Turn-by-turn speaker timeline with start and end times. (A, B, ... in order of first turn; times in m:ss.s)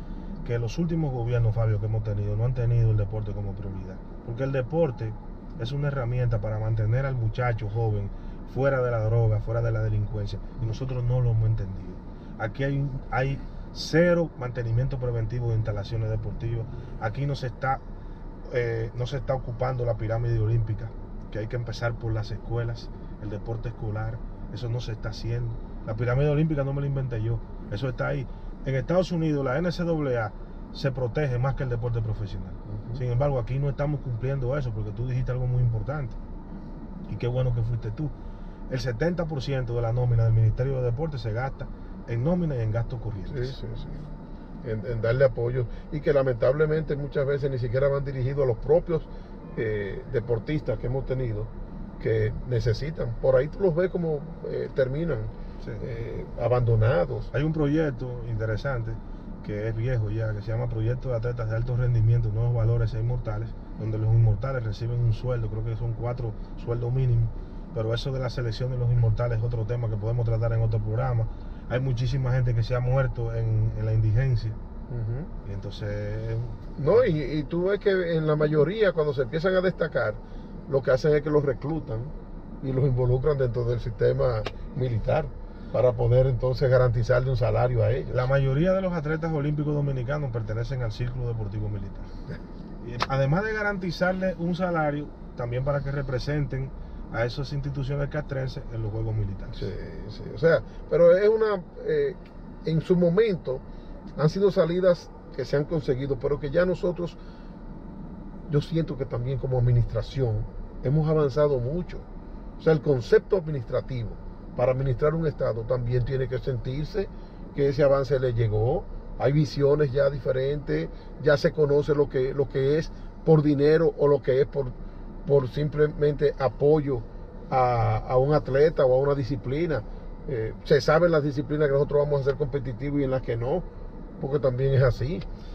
0:00.4-0:17.8 A
0:18.5-0:36.2 A
0:32.7-0:33.0 B
0:37.1-0:38.1 A
0:38.7-0:43.6 A
0:43.3-0:44.0 B
0:44.6-0:57.3 B
0:57.3-1:14.6 A
1:14.9-1:15.3 B
1:15.4-1:17.1 A
1:16.8-1:28.3 B
1:28.1-1:32.1 A
1:32.8-1:39.7 A
1:39.5-1:43.6 B
1:44.2-1:47.2 B
1:48.5-1:52.0 B
1:52.6-2:13.6 B
2:14.2-2:15.2 B